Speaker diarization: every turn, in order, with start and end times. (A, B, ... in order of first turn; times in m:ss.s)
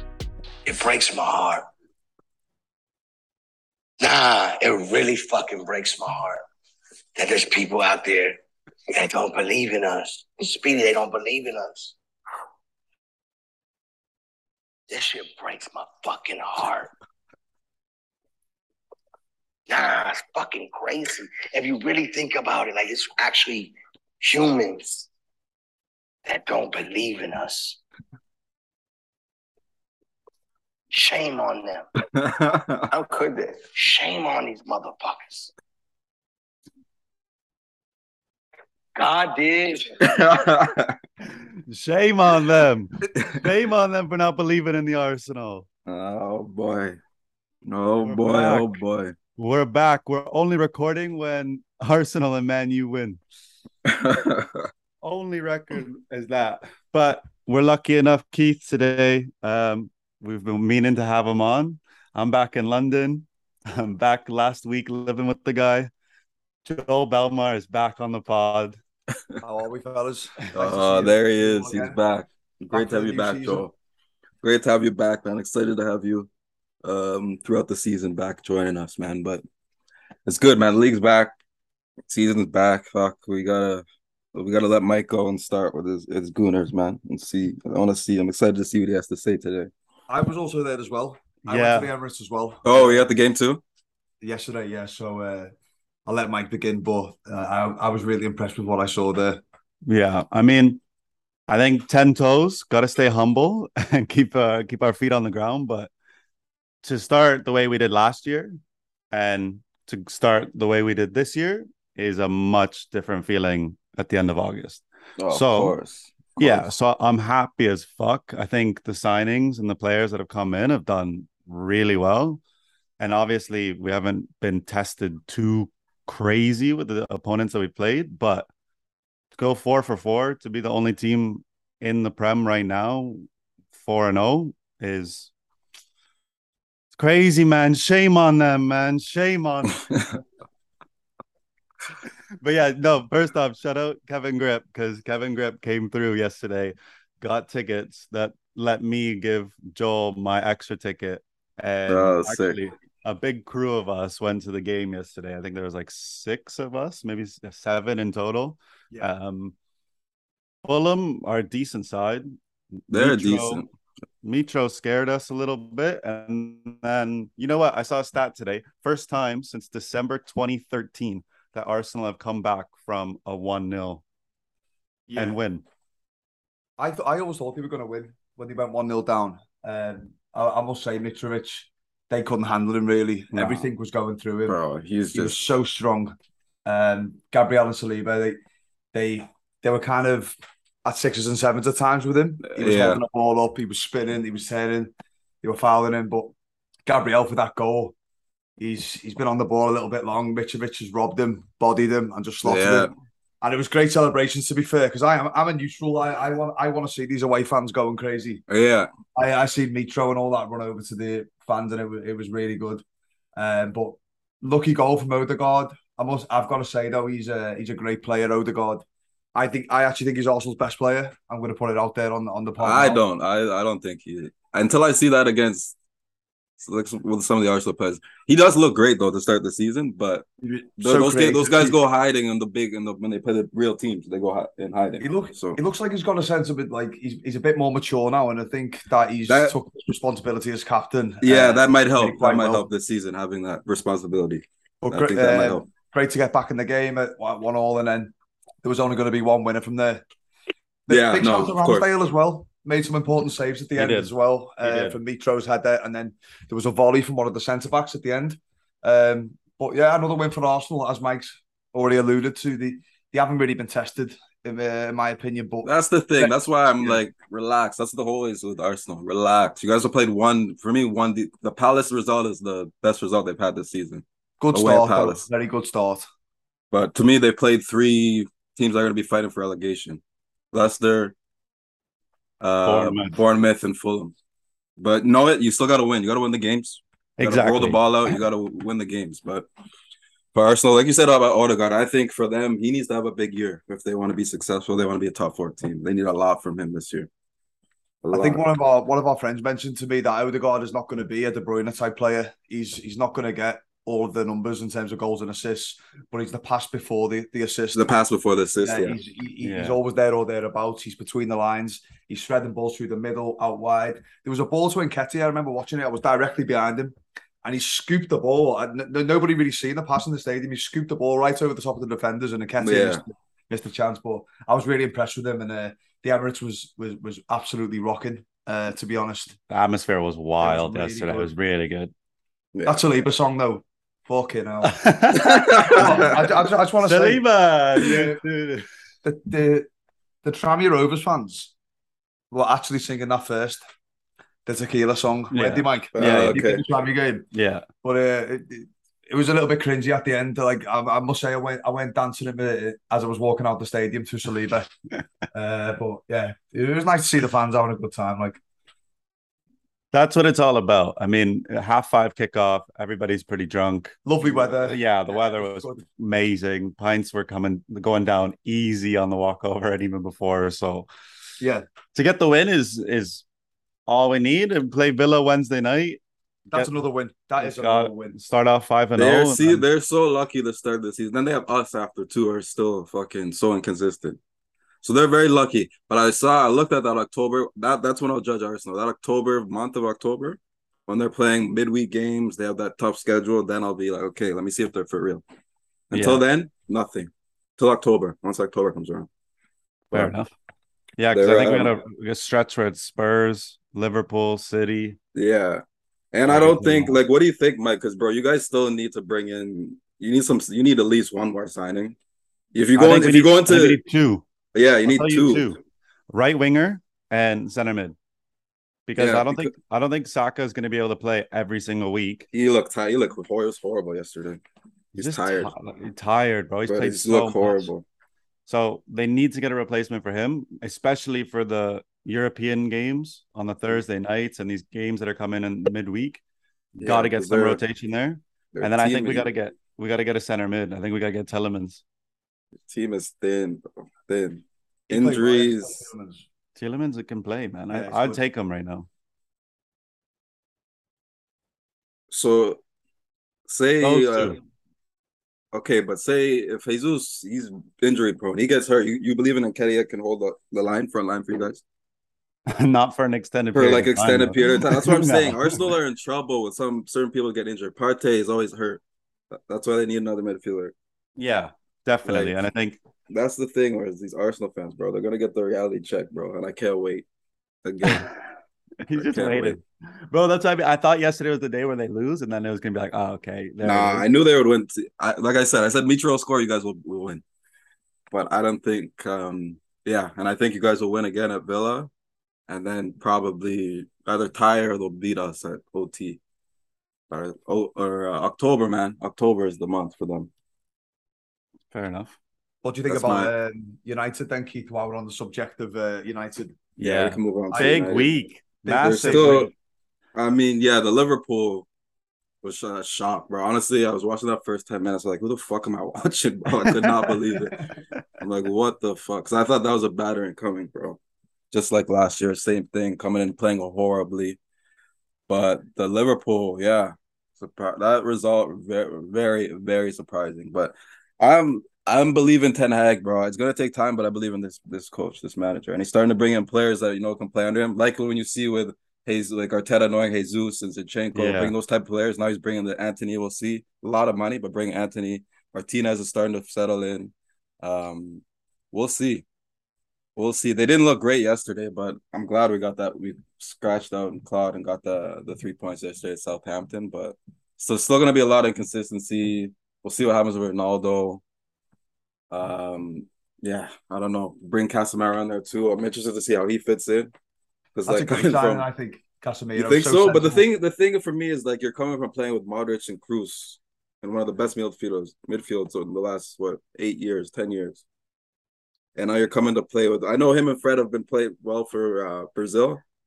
0:00.7-0:01.7 A
0:04.0-0:06.4 A
0:07.2-0:08.4 A
0:08.9-0:12.0 A
0:14.9-0:16.9 A
0:19.7-0:25.1 A
0:26.3-0:27.8 A
0:30.9-0:31.9 A
0:32.1-0:32.9 B
0:32.9-0:35.5 A
0:39.0-0:40.4 A
0:40.0-0:41.0 B
0:41.7-0:45.7 C
0:45.9-0:47.0 B
0:47.6-0:49.1 B
0:48.0-0:48.8 C
0:49.4-0:53.2 C
0:53.9-0:54.7 B
0:55.0-1:05.9 C
1:06.6-1:08.8 C
1:09.4-1:12.0 D
1:10.5-1:13.7 B
1:12.7-1:13.7 D
1:14.4-1:16.3 B
1:16.8-1:19.4 B
1:20.3-1:21.4 B
1:22.1-1:29.7 B
1:30.1-1:33.0 D
1:31.4-1:31.9 C
1:32.6-1:33.6 B
1:34.2-1:35.5 D
1:36.1-1:39.4 D
1:39.9-1:40.8 C
1:41.5-1:45.9 C
1:46.8-1:48.6 C
1:49.1-1:55.8 C
1:55.2-1:56.7 B
1:56.4-2:02.4 C
2:03.0-2:08.5 C
2:09.4-2:15.3 C
2:16.9-2:19.8 C
2:22.4-2:39.6 C
2:31.9-2:32.6 B
2:40.6-2:43.6 C
2:42.9-2:43.7 B
2:44.2-2:54.0 C
2:55.1-2:55.4 D
2:55.2-2:55.6 C
2:56.8-3:04.6 D
3:03.3-3:03.7 C
3:04.5-3:05.4 B
3:05.1-3:08.4 D
3:08.9-3:14.9 D
3:12.5-3:13.0 B
3:15.4-3:16.3 D
3:16.8-3:17.9 D
3:18.6-3:28.4 D
3:22.4-3:22.9 B
3:28.5-3:28.9 B
3:29.2-3:32.8 D
3:33.4-3:43.0 D
3:42.6-3:45.8 B
3:46.6-3:50.2 B
3:50.4-3:51.8 D
3:50.8-3:55.6 B
3:55.0-4:02.7 D
3:59.3-3:59.6 B
4:01.2-4:05.7 B
4:04.8-4:10.0 D
4:10.9-4:27.0 D
4:10.9-4:11.9 B
4:13.8-4:15.0 C
4:25.6-4:35.2 B
4:34.4-4:36.1 D
4:36.7-4:41.2 B
4:42.4-4:44.1 B
4:42.6-4:43.2 C
4:44.8-4:49.5 B
4:47.2-4:47.8 C
4:50.3-4:57.1 B
4:58.0-4:58.5 B
4:58.1-5:07.9 D
5:07.7-5:09.0 B
5:08.6-5:29.4 D
5:09.4-5:09.8 C
5:22.6-5:23.0 B
5:29.5-5:31.9 C
5:30.4-5:31.3 D
5:32.5-5:32.8 B
5:32.7-5:34.8 D
5:34.6-5:36.2 C
5:35.2-5:36.1 B
5:35.7-5:37.2 D
5:36.8-5:38.7 C
5:37.8-5:38.2 D
5:39.0-5:39.7 D
5:40.2-5:41.5 D
5:42.3-5:43.6 D
5:44.5-5:47.3 D
5:45.3-5:46.4 C
5:46.0-5:46.6 B
5:47.3-5:47.7 C
5:47.8-5:54.7 D
5:55.3-5:58.4 D
5:59.9-6:10.9 C
6:04.0-6:05.8 D
6:11.4-6:11.6 D
6:12.0-6:13.2 C
6:13.9-6:16.0 C
6:16.5-6:18.2 D
6:17.4-6:19.6 C
6:19.0-6:24.2 B
6:24.8-6:35.2 B
6:35.9-6:39.1 B
6:35.9-6:36.2 C
6:39.9-6:40.3 C
6:41.0-6:45.0 C
6:41.1-6:41.7 B
6:45.1-6:52.0 B
6:46.3-6:47.0 C
6:52.5-6:53.8 B
6:52.8-6:54.2 C
6:54.5-6:55.5 B
6:54.8-6:55.6 C
6:56.1-6:58.0 C
6:58.9-7:02.3 C
6:59.0-6:59.5 B
7:02.3-7:04.4 B
7:05.0-7:05.5 B
7:05.0-7:07.7 C
7:06.7-7:07.8 B
7:08.5-7:16.2 C
7:16.8-7:21.8 C
7:16.8-7:17.6 B
7:18.5-7:19.3 B
7:22.7-7:25.9 B
7:24.9-7:26.2 D
7:26.6-7:28.9 C
7:27.7-7:28.2 D
7:32.1-7:32.6 B
7:33.5-7:34.4 B
7:33.8-7:34.4 C
7:35.5-7:41.6 B
7:42.5-7:45.6 C
7:43.6-7:50.8 B
7:51.2-7:52.8 C
7:52.0-7:52.4 B
7:53.1-7:57.1 B
7:57.6-7:58.1 B
7:58.9-8:04.1 C
7:58.9-7:59.6 B
8:03.6-8:07.2 B
8:08.1-8:11.9 B
8:12.5-8:16.2 B
8:17.1-8:20.3 B
8:21.7-8:22.2 C
8:22.6-8:26.7 D
8:22.9-8:23.3 B
8:26.8-8:29.5 C
8:26.8-8:28.1 B
8:27.5-8:27.9 D
8:28.7-8:29.5 D
8:28.8-8:29.5 B
8:30.2-8:31.7 B
8:32.4-8:37.7 B
8:38.2-8:41.0 B
8:41.5-8:44.4 B
8:45.3-9:09.3 B
9:01.1-9:01.6 C
9:10.2-9:21.2 B
9:22.3-9:27.1 B
9:27.8-9:28.7 B
9:27.9-9:30.4 D
9:29.6-9:37.8 B
9:39.0-9:42.8 B